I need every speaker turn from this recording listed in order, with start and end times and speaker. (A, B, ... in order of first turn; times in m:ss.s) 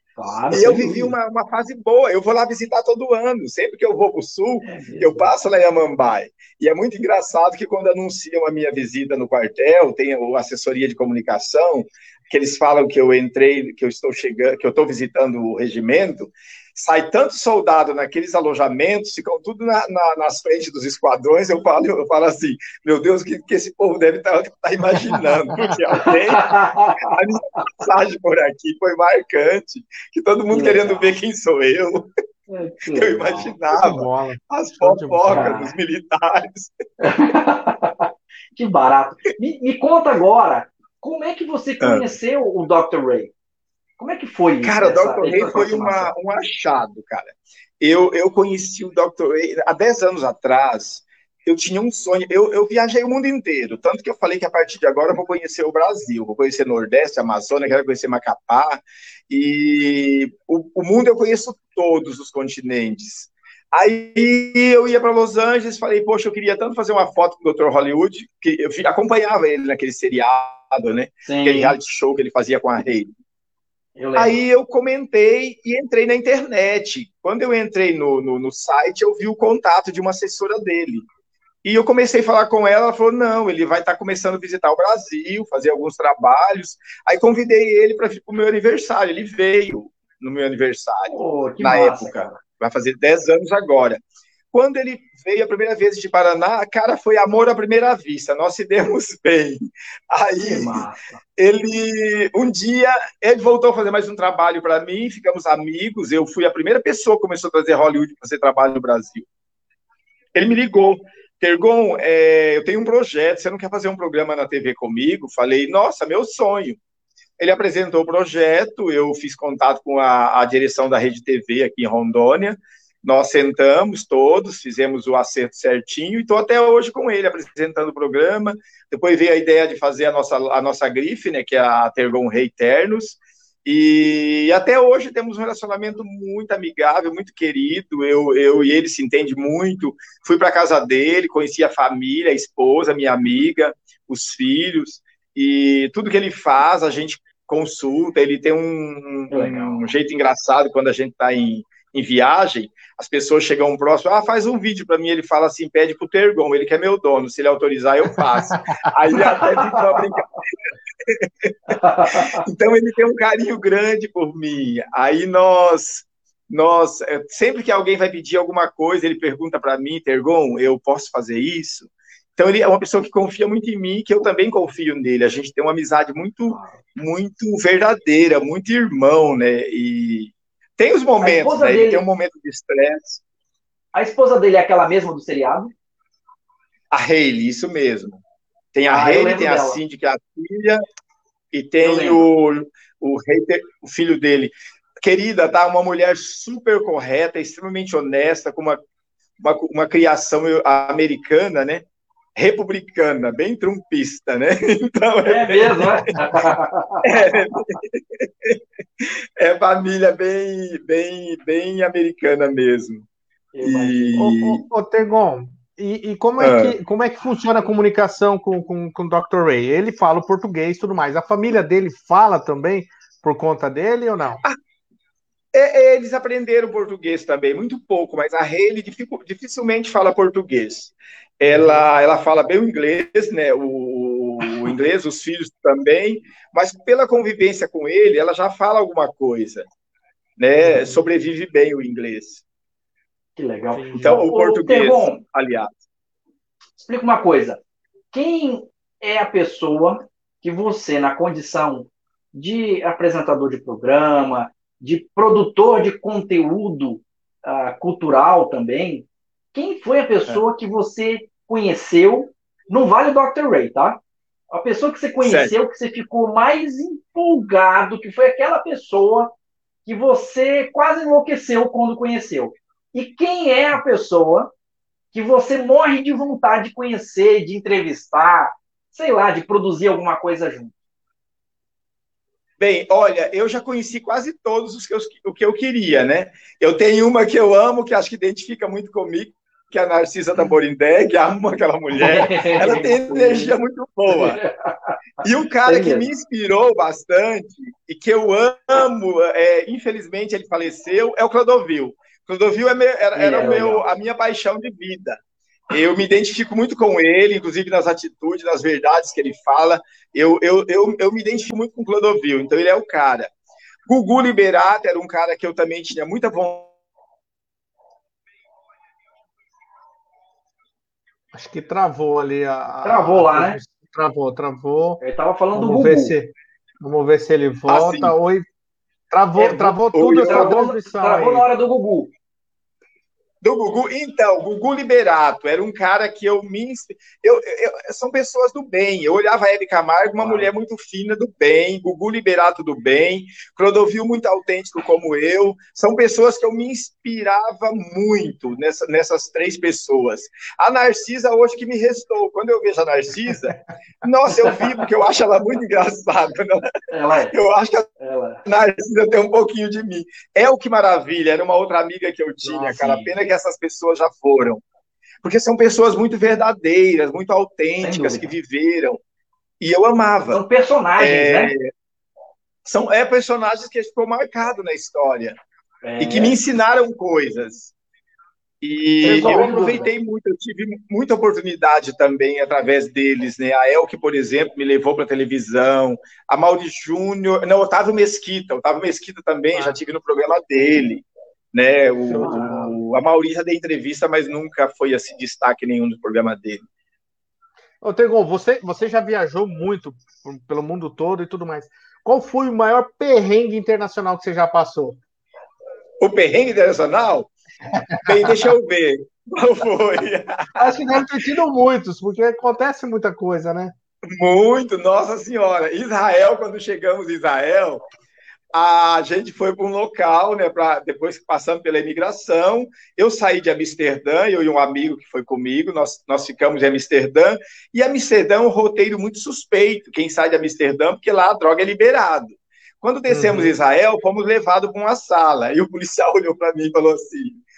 0:00.2-0:01.1 A
0:00.5-0:32.1 B
0:04.7-0:05.3 A
0:25.1-0:25.8 C
0:26.1-0:27.1 A
0:30.5-0:31.1 A
0:32.5-0:33.6 A
0:32.9-0:36.7 B
0:33.8-0:35.7 C
0:35.3-0:35.7 A
0:37.0-0:43.3 A
0:41.8-0:42.1 B
0:44.0-0:46.1 A
0:44.6-1:13.1 B
1:11.2-1:11.8 A
1:14.0-1:14.4 A
1:14.2-1:21.1 B
1:21.6-1:40.9 B
1:31.1-1:32.4 A
1:40.4-1:41.2 A
1:41.4-1:49.3 B
1:50.4-1:56.8 B
1:57.4-2:40.4 B
2:29.3-2:29.9 A
2:38.5-2:38.8 C
2:39.3-2:40.0 A
2:41.0-3:03.2 B
2:41.7-2:42.4 A
2:56.5-2:56.8 A
3:01.2-3:02.0 A
3:03.9-3:05.7 A
3:06.9-3:08.2 B
3:08.7-3:10.8 B
3:08.9-3:09.8 A
3:11.5-3:18.8 B
3:11.8-3:12.3 A
3:19.4-3:21.8 B
3:22.4-3:26.1 B
3:25.3-3:27.4 A
3:27.0-3:33.1 B
3:33.5-3:34.3 A
3:33.6-3:34.6 B
3:34.2-3:44.4 C
3:36.4-3:36.8 B
3:45.5-3:59.7 B
4:00.4-4:02.4 B
4:00.7-4:01.0 C
4:03.4-4:05.1 A
4:03.7-4:04.3 C
4:04.0-4:05.7 B
4:06.8-4:07.6 A
4:08.1-4:34.5 A
4:25.2-4:25.6 B
4:35.1-4:40.7 A
4:42.6-4:54.4 B
4:51.9-4:53.5 A
4:54.1-4:54.9 A
4:55.2-5:13.3 B
4:55.6-4:56.1 A
5:03.1-5:03.9 A
5:13.9-5:16.7 B
5:21.3-5:25.0 C
5:22.8-5:23.6 A
5:25.0-5:26.1 A
5:25.5-5:28.4 C
5:27.7-5:28.1 B
5:29.1-5:31.4 C
5:29.4-5:32.1 A
5:29.9-5:30.6 B
5:33.4-5:56.7 B
5:40.2-5:40.5 A
5:56.9-5:57.4 A
5:57.3-5:57.9 B
5:58.0-5:58.4 A
5:58.4-6:04.6 B
6:02.4-6:03.1 A
6:05.2-6:09.0 B
6:07.8-6:08.3 A
6:09.6-6:10.4 B
6:10.3-6:11.5 A
6:11.0-6:11.6 B
6:12.6-6:15.4 B
6:15.8-6:16.4 A
6:16.0-6:17.7 B
6:18.6-6:36.6 B
6:19.0-6:19.9 A
6:19.0-6:19.8 C
6:29.5-6:29.8 C
6:32.1-6:32.8 C
6:37.8-6:45.0 C
6:46.0-6:47.3 B
6:47.7-6:48.5 C
6:48.0-6:51.0 B
6:50.6-6:53.7 C
6:54.1-6:57.8 B
6:58.5-7:17.4 B
7:13.1-7:13.5 C